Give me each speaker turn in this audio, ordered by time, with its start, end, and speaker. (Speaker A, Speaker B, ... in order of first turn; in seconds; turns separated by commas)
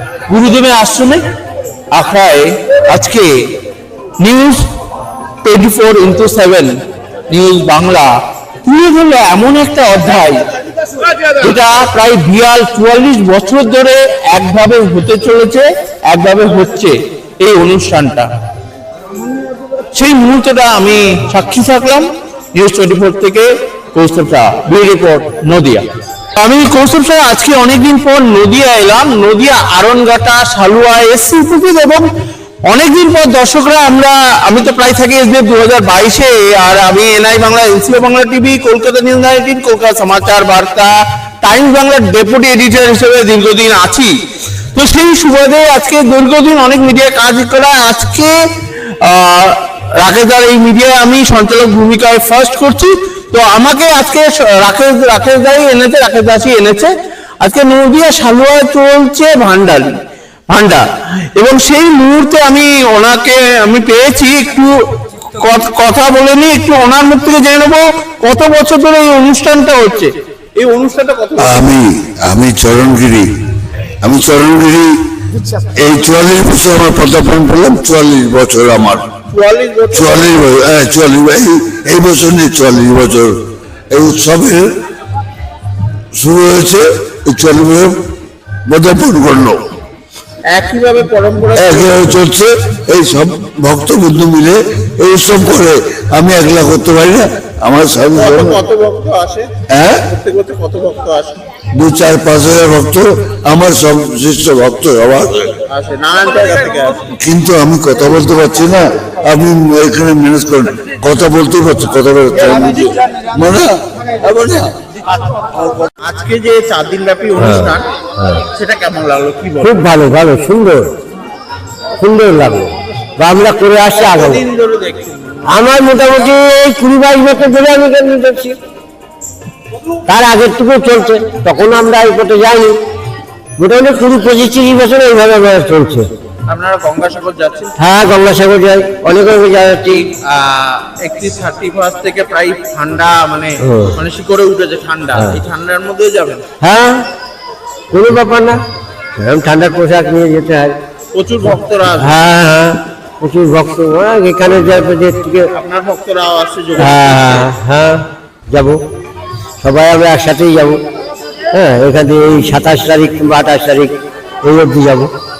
Speaker A: 0.3-1.2, Speaker A: 1.9-3.5, Speaker A: 4.2-4.6, Speaker A: 5.4-6.7, Speaker A: 7.3-8.1, Speaker A: 8.6-10.5, Speaker A: 11.3-18.3, Speaker A: 19.9-32.0, Speaker A: 32.6-44.1, Speaker A: 44.7-59.9, Speaker A: 60.5-64.7, Speaker A: 65.4-71.7, Speaker B: 71.4-73.2, Speaker B: 74.0-74.9, Speaker B: 75.8-79.0, Speaker A: 79.3-80.4, Speaker B: 79.9-83.3, Speaker B: 83.9-84.6, Speaker B: 86.2-87.9, Speaker B: 88.7-89.6, Speaker A: 90.5-92.2, Speaker B: 91.5-98.6, Speaker A: 98.1-99.5, Speaker B: 99.7-100.0, Speaker A: 100.0-101.4, Speaker B: 101.8-105.5, Speaker A: 105.6-107.1, Speaker B: 107.2-113.7, Speaker A: 112.5-112.9, Speaker A: 114.2-114.7, Speaker A: 115.9-117.8, Speaker C: 117.4-118.4, Speaker A: 118.4-119.8, Speaker C: 119.6-120.9, Speaker C: 122.0-124.4, Speaker A: 123.9-125.5, Speaker C: 125.5-128.6, Speaker C: 130.1-132.8, Speaker C: 133.6-136.1, Speaker A: 136.4-137.7, Speaker C: 137.8-140.1, Speaker A: 139.9-146.5, Speaker C: 143.6-143.9, Speaker C: 146.6-147.1, Speaker C: 147.9-148.6, Speaker C: 149.2-150.8, Speaker A: 151.1-152.2, Speaker C: 151.9-155.5, Speaker A: 155.5-157.5, Speaker C: 156.8-158.8, Speaker C: 159.6-160.8, Speaker C: 161.5-165.1